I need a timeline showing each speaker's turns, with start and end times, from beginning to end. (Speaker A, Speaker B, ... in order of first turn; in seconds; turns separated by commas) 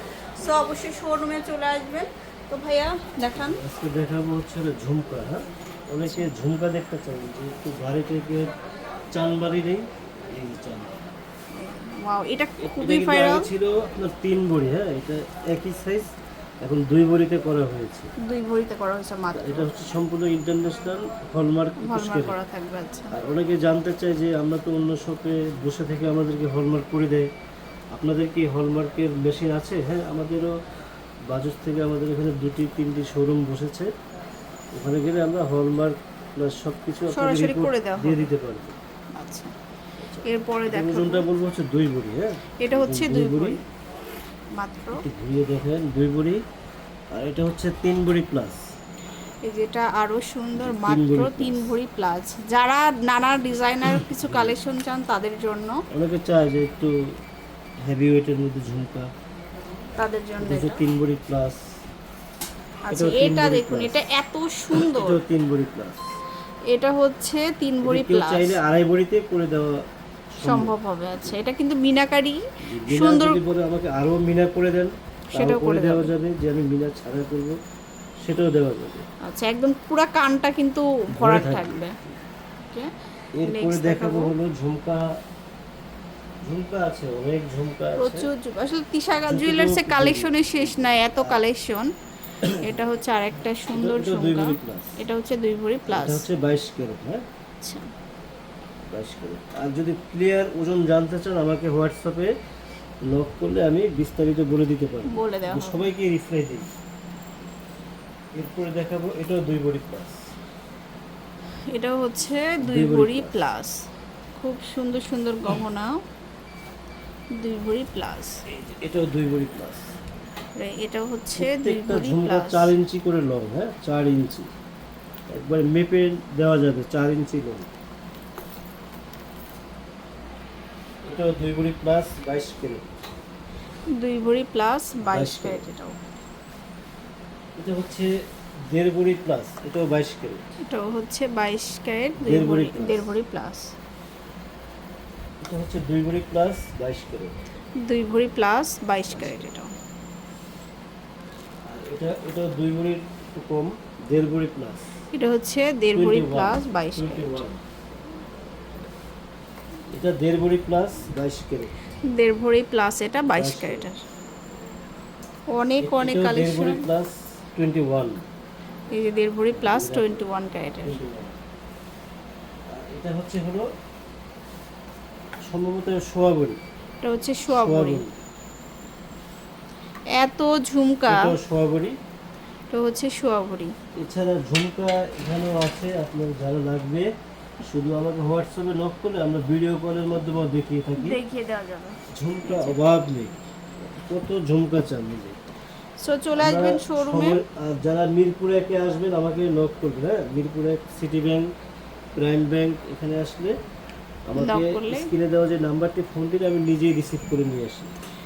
Speaker A: 0.4-3.6, Speaker B: 3.4-8.5, Speaker A: 6.0-6.3, Speaker B: 9.1-11.0, Speaker A: 11.6-13.5, Speaker B: 12.6-16.1, Speaker B: 16.6-18.1, Speaker A: 18.2-19.7, Speaker B: 19.3-22.4, Speaker A: 21.8-23.2, Speaker B: 23.1-27.3, Speaker B: 27.9-30.5, Speaker B: 31.3-33.9, Speaker B: 34.8-38.8, Speaker A: 37.1-38.3, Speaker A: 39.2-39.5, Speaker B: 40.0-43.6, Speaker A: 40.2-41.2, Speaker A: 42.6-43.6, Speaker A: 44.6-45.0, Speaker B: 45.0-46.4, Speaker B: 47.1-48.6, Speaker A: 49.5-55.8, Speaker B: 50.6-51.7, Speaker B: 54.0-54.6, Speaker B: 55.9-57.0, Speaker B: 57.8-59.1, Speaker A: 60.0-60.8, Speaker B: 60.4-61.6, Speaker A: 62.9-65.2, Speaker B: 62.9-64.0, Speaker B: 64.7-66.0, Speaker A: 66.7-68.6, Speaker B: 67.8-69.8, Speaker B: 70.4-71.4, Speaker A: 70.4-73.4, Speaker B: 72.6-77.6, Speaker A: 75.3-76.1, Speaker B: 78.3-79.0, Speaker A: 79.2-82.0, Speaker B: 81.1-81.9, Speaker B: 83.4-85.1, Speaker A: 83.5-84.3, Speaker B: 86.4-88.3, Speaker A: 88.0-91.9, Speaker B: 89.3-91.4, Speaker B: 92.4-92.9, Speaker A: 92.5-96.3, Speaker B: 93.7-95.0, Speaker B: 95.9-97.2, Speaker A: 97.6-97.9, Speaker B: 98.9-102.3, Speaker B: 103.1-106.7, Speaker A: 105.1-105.9, Speaker B: 108.3-110.2, Speaker A: 111.7-113.8, Speaker B: 112.6-113.4, Speaker A: 114.4-115.9, Speaker A: 117.4-118.3, Speaker B: 118.5-119.9, Speaker A: 120.6-122.7, Speaker B: 121.4-124.5, Speaker B: 125.3-127.7, Speaker B: 131.0-132.9, Speaker A: 133.9-136.0, Speaker B: 135.1-135.6, Speaker B: 137.6-138.2, Speaker B: 138.7-140.5, Speaker A: 140.7-143.7, Speaker B: 142.2-143.1, Speaker B: 145.4-147.4, Speaker A: 147.8-149.7, Speaker B: 149.1-149.5, Speaker B: 151.7-154.9, Speaker A: 155.1-157.5, Speaker B: 155.9-157.6, Speaker B: 159.9-161.8, Speaker A: 162.0-164.0, Speaker B: 163.4-163.9, Speaker A: 165.5-166.9, Speaker B: 165.8-168.2, Speaker A: 168.9-171.0, Speaker B: 169.5-170.2, Speaker B: 170.8-171.4, Speaker B: 172.7-173.7, Speaker B: 175.5-176.6, Speaker A: 177.0-178.0, Speaker B: 177.5-178.2, Speaker A: 180.2-181.3, Speaker B: 181.1-182.0, Speaker A: 182.7-183.8, Speaker B: 184.0-187.1, Speaker B: 187.6-191.2, Speaker A: 191.0-192.8, Speaker B: 192.1-195.4, Speaker A: 196.0-197.4, Speaker B: 196.4-201.5, Speaker B: 202.2-203.5, Speaker B: 204.3-207.9, Speaker A: 204.4-205.1